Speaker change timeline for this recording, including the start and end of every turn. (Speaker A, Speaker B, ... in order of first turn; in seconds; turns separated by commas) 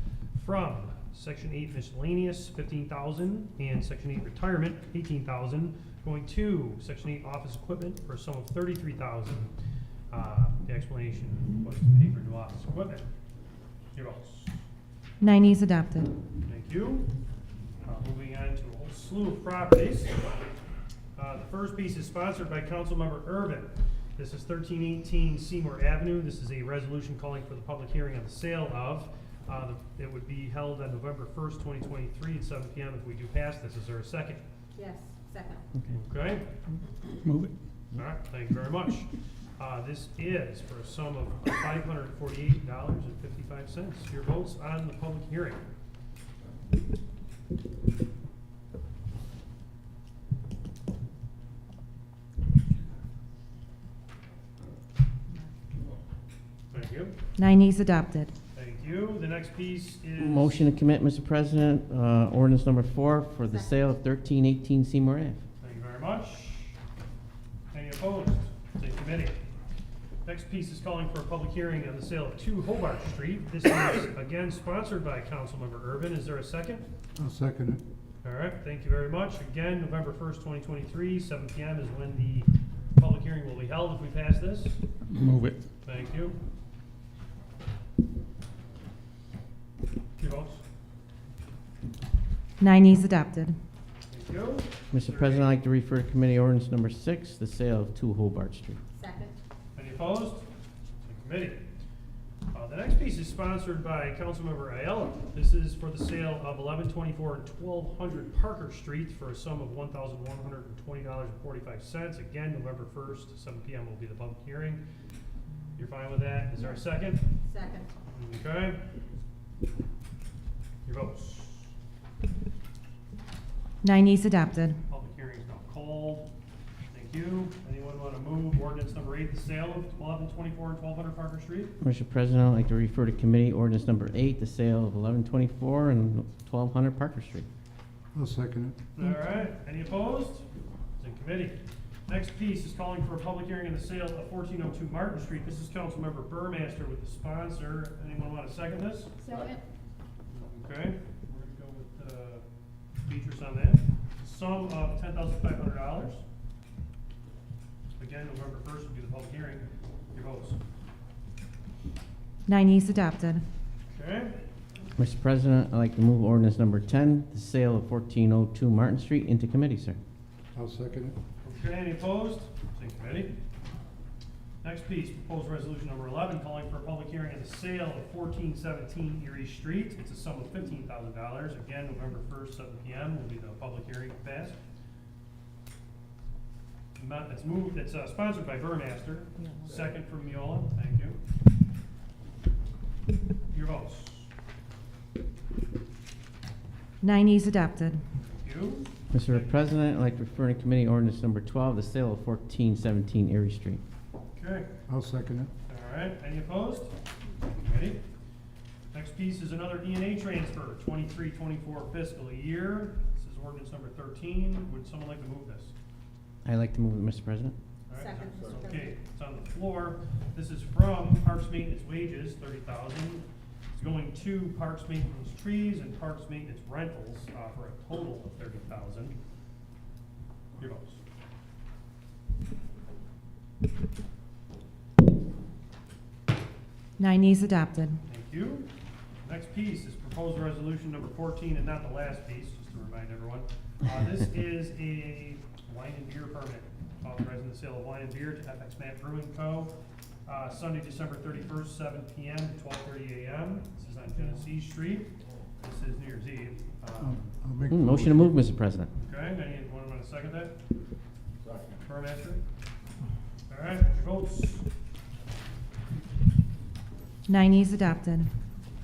Speaker A: 0.3-9.5, Speaker A: 10.1-13.1, Speaker A: 13.9-14.6, Speaker B: 15.2-16.1, Speaker A: 16.4-17.1, Speaker A: 17.8-20.1, Speaker A: 21.1-34.4, Speaker C: 34.7-35.6, Speaker A: 35.9-36.5, Speaker A: 37.9-45.6, Speaker A: 56.7-57.1, Speaker B: 57.4-58.3, Speaker A: 58.5-60.6, Speaker D: 60.2-65.4, Speaker A: 65.6-66.8, Speaker A: 67.7-69.4, Speaker A: 70.2-76.8, Speaker E: 77.1-77.8, Speaker A: 78.2-84.8, Speaker A: 85.8-86.3, Speaker A: 90.2-90.6, Speaker B: 92.6-93.5, Speaker A: 94.1-95.5, Speaker D: 94.9-98.8, Speaker C: 98.9-99.3, Speaker A: 99.7-100.5, Speaker A: 101.0-101.6, Speaker A: 102.5-114.8, Speaker A: 115.8-117.3, Speaker C: 117.4-117.9, Speaker A: 118.1-118.8, Speaker A: 120.8-121.7, Speaker B: 123.8-124.8, Speaker A: 124.9-126.3, Speaker A: 126.9-131.7, Speaker D: 131.8-137.4, Speaker E: 138.1-138.8, Speaker A: 138.9-140.4, Speaker A: 141.0-149.3, Speaker C: 149.2-149.6, Speaker A: 150.4-152.4, Speaker A: 153.1-156.2, Speaker A: 158.0-160.6, Speaker B: 162.4-163.4, Speaker A: 163.9-164.4, Speaker D: 165.0-170.0, Speaker E: 170.5-171.2, Speaker A: 171.4-173.3, Speaker A: 174.6-184.6, Speaker A: 187.0-191.2, Speaker A: 193.5-194.3, Speaker B: 197.0-198.0, Speaker A: 198.2-199.5, Speaker D: 199.1-203.8, Speaker A: 204.3-204.7, Speaker E: 204.9-205.5, Speaker A: 205.7-208.0, Speaker A: 208.9-215.7, Speaker D: 216.4-217.5, Speaker A: 217.9-229.2, Speaker C: 217.9-219.0, Speaker A: 230.6-231.0, Speaker B: 237.0-238.0, Speaker A: 238.1-238.7, Speaker A: 239.2-249.7, Speaker A: 250.2-257.3, Speaker E: 257.0-258.4, Speaker D: 257.7-258.9, Speaker A: 259.0-260.6, Speaker A: 261.8-262.4, Speaker A: 263.5-264.6, Speaker B: 267.3-268.3